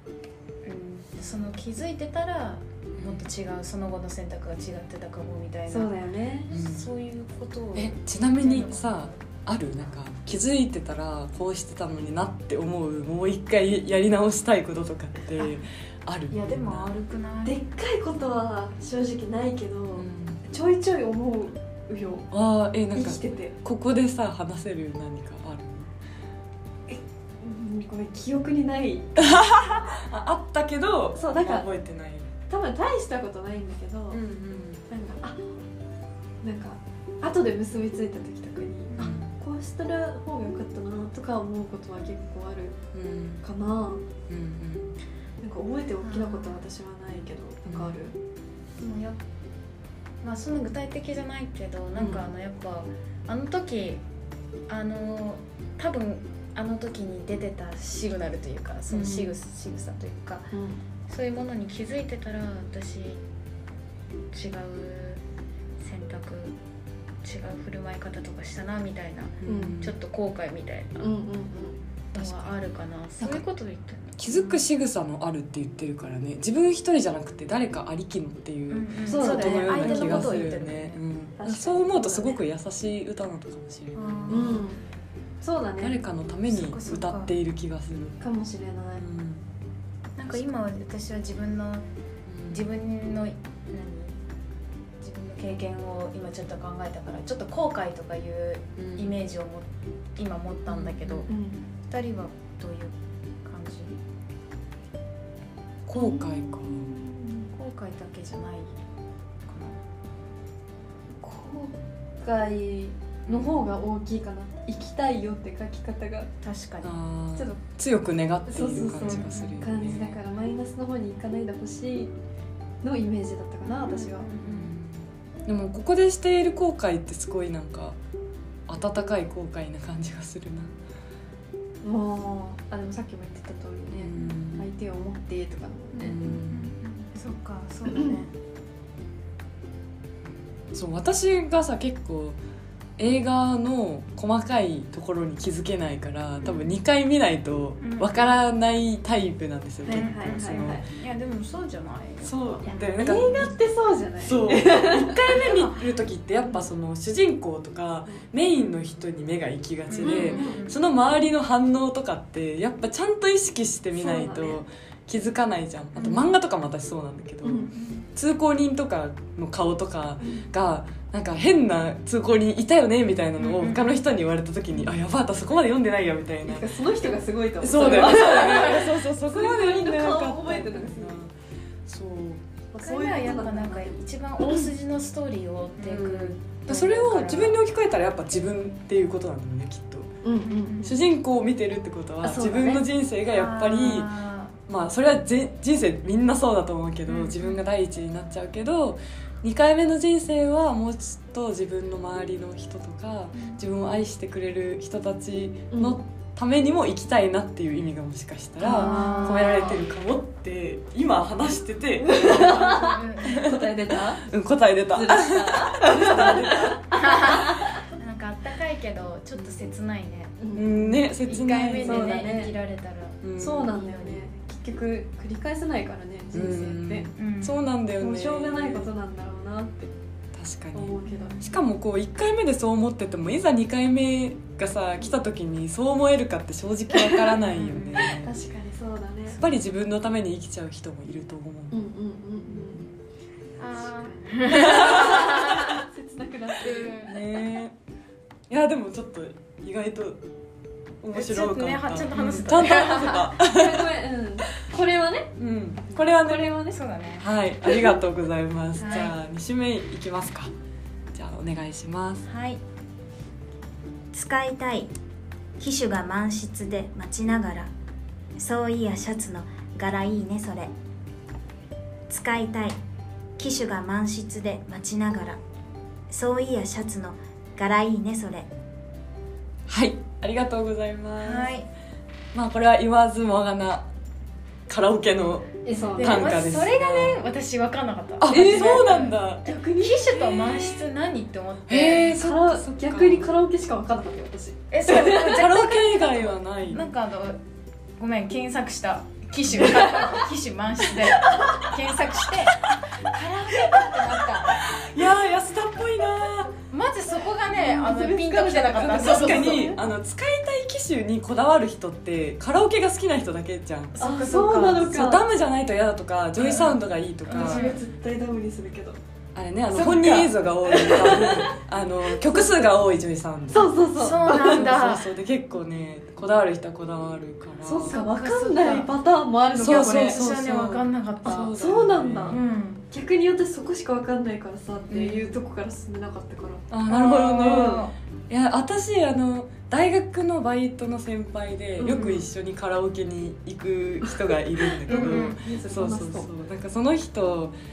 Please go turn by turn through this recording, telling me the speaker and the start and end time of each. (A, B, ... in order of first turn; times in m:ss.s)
0:00.6-0:05.9 A
0:03.0-0:03.2 B
0:05.7-0:06.5 C
0:06.5-0:09.2 A
0:06.5-0:06.9 B
0:07.8-0:16.9 B
0:16.3-0:17.6 A
0:17.4-0:22.3 C
0:20.0-0:20.4 B
0:22.3-0:25.9 B
0:22.9-0:23.6 C
0:26.9-0:29.3 C
0:29.2-0:32.3 B
0:31.2-0:31.7 C
0:32.5-0:34.2 C
0:34.1-0:34.8 B
0:34.9-0:35.4 C
0:36.4-0:42.8 C
0:38.9-0:39.2 A
0:39.0-0:39.3 B
0:42.9-0:43.4 B
0:43.4-0:44.0 C
0:44.3-0:44.9 B
0:45.4-0:48.2 C
0:46.0-0:46.6 A
0:47.7-0:48.0 B
0:48.8-0:49.2 A
0:50.2-0:54.0 A
0:54.7-1:00.5 A
0:58.9-0:59.3 B
1:00.5-1:00.8 C
1:01.1-1:03.2 A
1:04.3-1:05.2 A
1:05.8-1:06.6 A
1:07.2-1:11.1 A
1:09.4-1:09.9 B
1:09.5-1:09.8 C
1:11.0-1:11.8 C
1:12.1-1:14.6 A
1:12.2-1:12.6 B
1:14.2-1:24.6 B
1:18.7-1:21.0 A
1:19.1-1:20.5 C
1:21.4-1:22.4 C
1:24.0-1:24.7 A
1:24.3-1:24.8 C
1:25.4-1:26.0 C
1:25.8-1:28.2 B
1:26.5-1:27.3 A
1:28.2-1:29.0 C
1:29.0-1:29.4 B
1:30.2-1:31.9 A
1:32.3-1:32.7 B
1:32.5-1:34.2 A
1:35.0-1:41.3 A
1:38.8-1:39.1 B
1:40.7-1:41.3 B
1:41.3-1:41.6 C
1:41.9-1:44.0 A
1:45.9-1:46.9 B
1:46.0-1:47.5 C
1:47.5-1:48.7 A
1:49.5-1:49.8 A
1:51.2-1:56.3 C
1:53.3-1:53.7 B
1:56.4-1:56.9 A
1:56.8-2:00.2 B
1:58.5-2:02.1 C
1:59.0-1:59.6 A
2:02.8-2:04.3 C
2:03.7-2:04.7 A
2:04.4-2:08.0 B
2:08.7-2:10.7 B
2:11.8-2:16.2 C
2:13.9-2:14.7 B
2:15.9-2:18.3 A
2:16.0-2:16.7 B
2:20.7-2:22.4 B
2:23.0-2:30.8 B
2:26.4-2:26.8 A
2:27.8-2:28.3 A
2:29.8-2:30.8 C
2:29.9-2:32.8 A
2:32.2-2:33.6 B
2:32.6-2:35.4 C
2:34.2-2:56.7 B
2:35.3-2:35.8 A
2:39.9-2:40.8 A
2:40.0-2:40.6 C
2:43.9-2:44.6 C
2:46.0-2:46.3 A
2:47.4-2:47.7 C
2:47.7-2:48.1 A
2:50.2-2:50.5 C
2:53.4-2:53.9 A
2:56.4-3:01.2 C
2:57.6-3:01.3 B
3:01.9-3:02.4 B
3:02.7-3:04.7 C
3:02.8-3:07.6 A
3:05.8-3:10.1 B
3:10.2-3:11.0 C
3:10.4-3:10.9 A
3:10.8-3:14.1 B
3:12.2-3:12.8 C
3:13.3-3:14.6 A
3:14.7-3:33.7 B
3:17.1-3:17.6 A
3:23.3-3:23.6 A
3:25.7-3:26.0 C
3:28.6-3:29.8 A
3:28.6-3:29.8 C
3:32.0-3:34.3 C
3:32.2-3:33.5 A
3:34.2-3:37.5 B
3:34.9-3:37.8 C
3:36.9-3:44.2 A
3:40.4-3:40.8 C
3:40.5-3:42.3 B
3:41.8-3:42.6 C
3:43.2-3:43.7 B
3:43.4-3:47.1 C
3:46.3-3:48.9 B
3:47.2-3:47.6 A
3:48.0-3:49.9 C
3:50.4-3:58.3 B
3:50.7-3:51.4 C
3:51.1-3:51.6 A
3:56.9-3:57.4 C
3:57.4-3:58.2 A
3:58.0-3:59.4 C
3:59.4-4:01.8 B
4:01.7-4:02.8 C
4:03.6-4:05.9 A
4:03.9-4:07.0 C
4:04.5-4:05.3 B
4:06.6-4:07.2 A
4:07.0-4:07.7 B
4:08.5-4:10.2 B
4:11.0-4:13.9 B
4:11.1-4:13.4 A
4:13.4-4:15.4 C
4:15.4-4:16.6 B
4:15.9-4:16.8 C
4:16.7-4:17.3 A
4:17.2-4:20.5 B
4:17.7-4:17.9 C
4:18.8-4:19.2 A
4:21.1-4:22.2 B
4:22.2-4:22.6 A
4:24.1-4:24.9 D
4:25.6-4:27.7 D
4:28.4-4:30.7 D
4:32.1-4:32.8 D
4:33.4-4:35.4 D
4:36.1-4:38.5 D
4:39.7-4:41.5 B
4:41.2-4:41.7 A
4:42.3-4:43.9 B
4:44.7-4:47.2 B
4:45.6-4:46.4 C
4:46.0-4:49.2 A
4:48.2-4:49.5 B
4:48.3-4:50.5 C
4:49.8-4:52.2 A
4:51.7-4:53.3 B
4:52.2-4:55.4 C
4:54.7-4:57.4 A
4:55.1-4:56.9 B
4:58.0-5:04.7 A
5:04.6-5:06.5 B
5:06.7-5:09.7 A
5:07.5-5:09.8 C
5:08.8-5:14.0 B
5:13.9-5:15.1 A
5:14.0-5:15.2 C
5:14.8-5:17.6 B
5:16.4-5:17.8 A
5:17.3-5:19.0 C
5:19.4-5:28.0 B
5:19.7-5:20.3 A
5:20.6-5:22.7 C
5:23.5-5:24.8 C
5:24.0-5:25.1 A
5:27.6-5:30.2 C
5:27.9-5:28.9 A
5:29.6-5:32.4 B
5:29.6-5:31.6 A
5:31.2-5:32.4 C
5:32.3-5:32.8 A
5:32.9-5:36.8 C
5:34.9-5:35.4 B
5:36.7-5:47.5 B
5:36.9-5:37.9 A
5:37.3-5:37.9 C
5:41.8-5:42.3 C
5:44.8-5:46.3 C
5:44.9-5:45.4 A